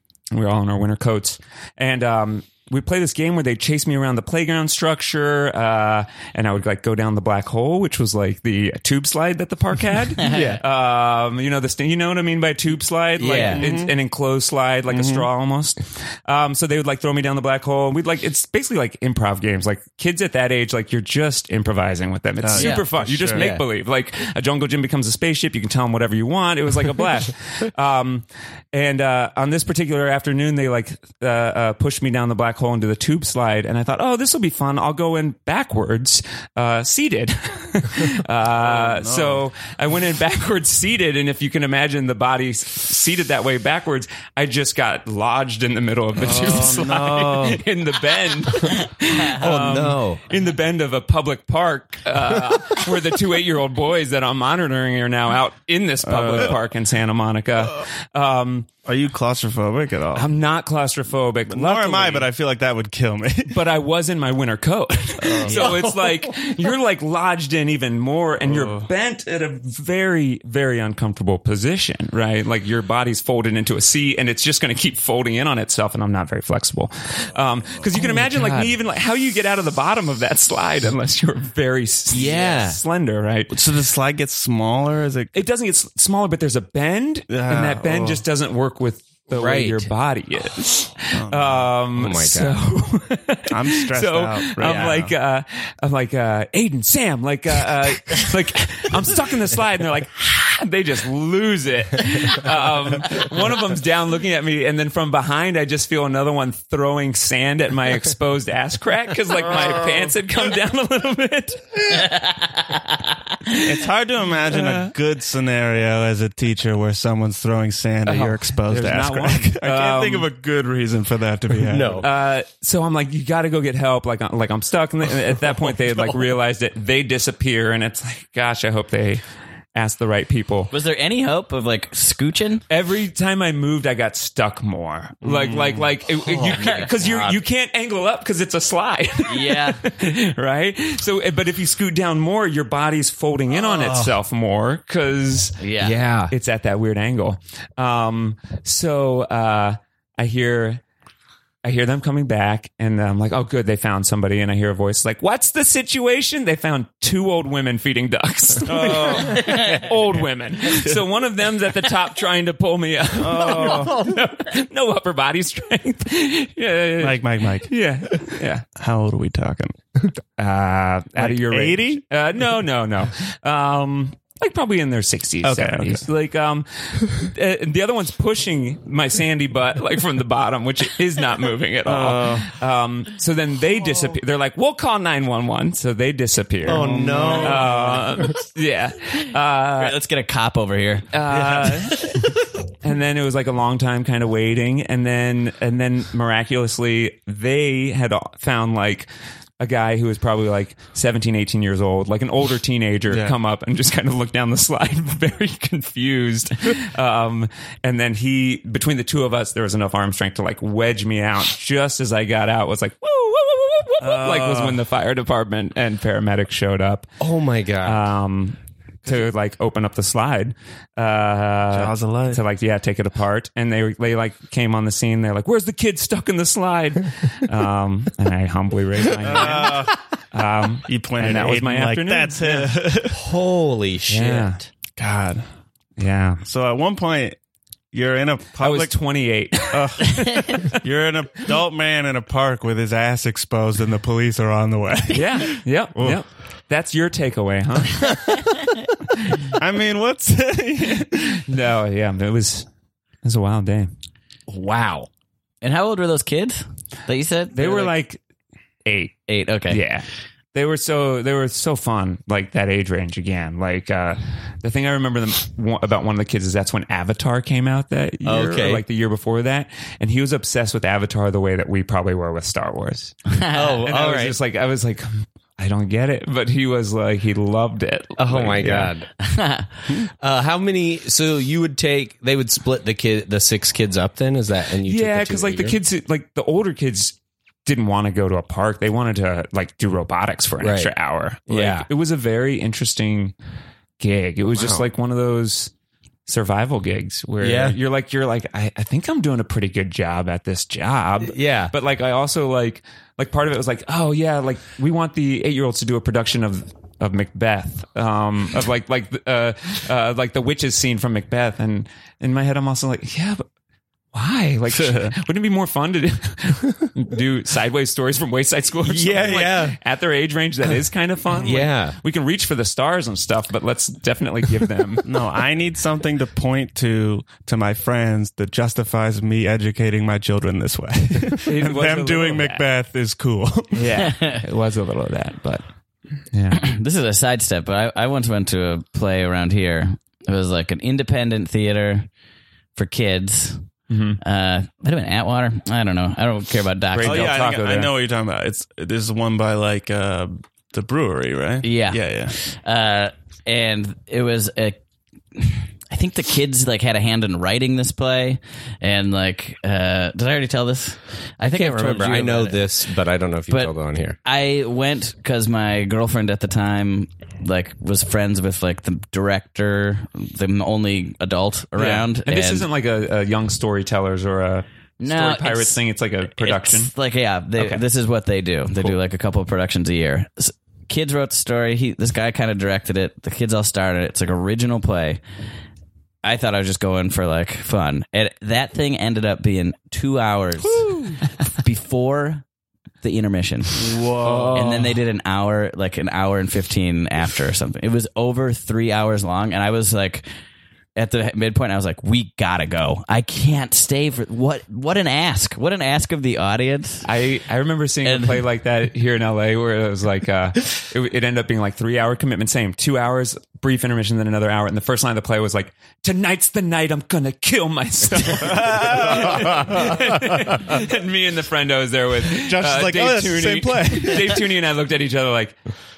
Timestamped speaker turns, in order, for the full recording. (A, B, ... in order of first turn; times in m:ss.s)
0:00.3-0:58.7 A
0:10.2-0:10.5 B
0:10.2-0:10.6 C
0:13.2-0:13.6 C
0:13.4-0:13.9 D
0:14.9-0:15.2 D
0:22.4-0:23.5 D
0:22.6-0:22.8 B
0:23.3-0:23.6 C
0:38.5-0:39.4 D
0:46.2-0:47.4 D
0:46.9-0:47.6 C
0:49.2-0:50.2 C
0:56.0-0:56.6 D
0:58.8-1:00.3 D
1:00.1-1:02.3 A
1:01.5-1:03.6 D
1:03.5-1:23.5 A
1:05.2-1:05.9 D
1:05.4-1:06.4 C
1:08.5-1:08.9 D
1:18.0-1:18.7 C
1:22.1-1:22.8 C
1:23.5-1:25.3 D
1:25.3-1:52.1 A
1:27.3-1:28.2 D
1:29.3-1:29.9 C
1:31.1-1:31.7 D
1:32.0-1:32.6 C
1:33.5-1:35.1 D
1:49.5-1:50.0 D
1:51.9-1:53.6 B
1:53.5-2:02.1 D
1:54.5-1:54.9 A
1:58.0-2:00.3 A
2:01.6-2:02.1 C
2:02.0-2:09.2 A
2:09.8-2:10.7 A
2:10.7-2:12.6 B
2:12.7-2:25.6 A
2:15.2-2:15.9 D
2:16.2-2:17.4 C
2:19.2-2:19.8 B
2:23.6-2:24.1 C
2:25.6-2:26.0 B
2:25.8-2:26.3 C
2:26.3-2:30.8 A
2:31.6-2:48.6 A
2:38.6-2:41.0 D
2:43.2-2:44.1 D
2:47.0-2:47.7 D
2:48.8-2:50.1 D
2:50.4-3:10.0 A
2:51.2-2:52.0 D
2:55.4-2:56.1 D
3:01.8-3:02.5 D
3:06.6-3:08.3 C
3:06.6-3:08.0 D
3:09.8-3:11.1 B
3:11.1-3:12.2 A
3:12.8-3:19.1 A
3:19.6-3:37.1 A
3:23.1-3:23.4 D
3:34.0-3:34.8 D
3:37.2-3:38.0 C
3:37.8-3:52.8 A
3:41.7-3:42.4 D
3:49.2-3:50.0 D
3:50.9-3:53.2 D
3:53.1-3:54.6 C
3:54.1-3:54.6 A
3:55.0-3:55.4 D
3:56.0-3:56.4 A
3:56.5-3:57.4 D
3:57.9-3:59.0 D
3:58.6-4:00.6 A
3:59.6-4:06.2 D
4:05.1-4:08.2 A
4:09.5-4:11.4 D
4:11.4-4:12.7 A
4:13.2-4:13.9 A
4:14.5-4:15.1 C
4:15.6-4:17.9 B
4:17.6-4:18.2 A
4:18.8-4:38.9 A
4:19.3-4:19.8 B
4:28.2-4:28.8 C
4:33.5-4:34.4 C
4:38.2-4:39.1 C
4:39.2-4:39.7 B
4:40.2-4:45.8 C
4:44.8-4:53.3 A
4:50.6-4:50.9 C
4:51.5-4:51.9 C
4:54.0-4:55.7 A
4:54.6-4:54.9 C
4:56.3-5:13.4 A
4:57.4-4:57.8 C
5:01.2-5:01.7 C
5:14.1-5:25.1 A
5:14.8-5:15.1 D
5:18.8-5:19.8 C
5:21.4-5:22.0 C
5:25.0-5:33.9 D
5:31.4-5:32.6 A
5:33.7-5:35.6 A
5:34.0-5:34.4 B
5:36.3-5:36.6 A
5:36.5-5:42.1 B
5:42.8-5:43.7 B
5:43.9-5:44.2 A
5:44.2-5:47.4 B
5:46.9-5:47.9 A
5:47.0-5:52.4 D
5:51.6-5:54.8 B
5:55.4-6:02.7 B
6:01.4-6:04.2 C
6:03.5-6:12.6 B
6:11.8-6:16.9 A
6:15.0-6:15.8 B
6:16.3-6:25.2 B
6:26.2-6:32.4 B
6:30.7-6:31.2 D
6:33.0-6:34.0 B
6:33.8-6:34.6 D
6:34.2-6:34.9 A
6:34.5-6:40.3 B
6:41.0-6:47.1 B
6:47.0-7:05.6 A
6:48.0-6:48.4 B
6:58.8-6:59.8 D
7:02.3-7:04.5 D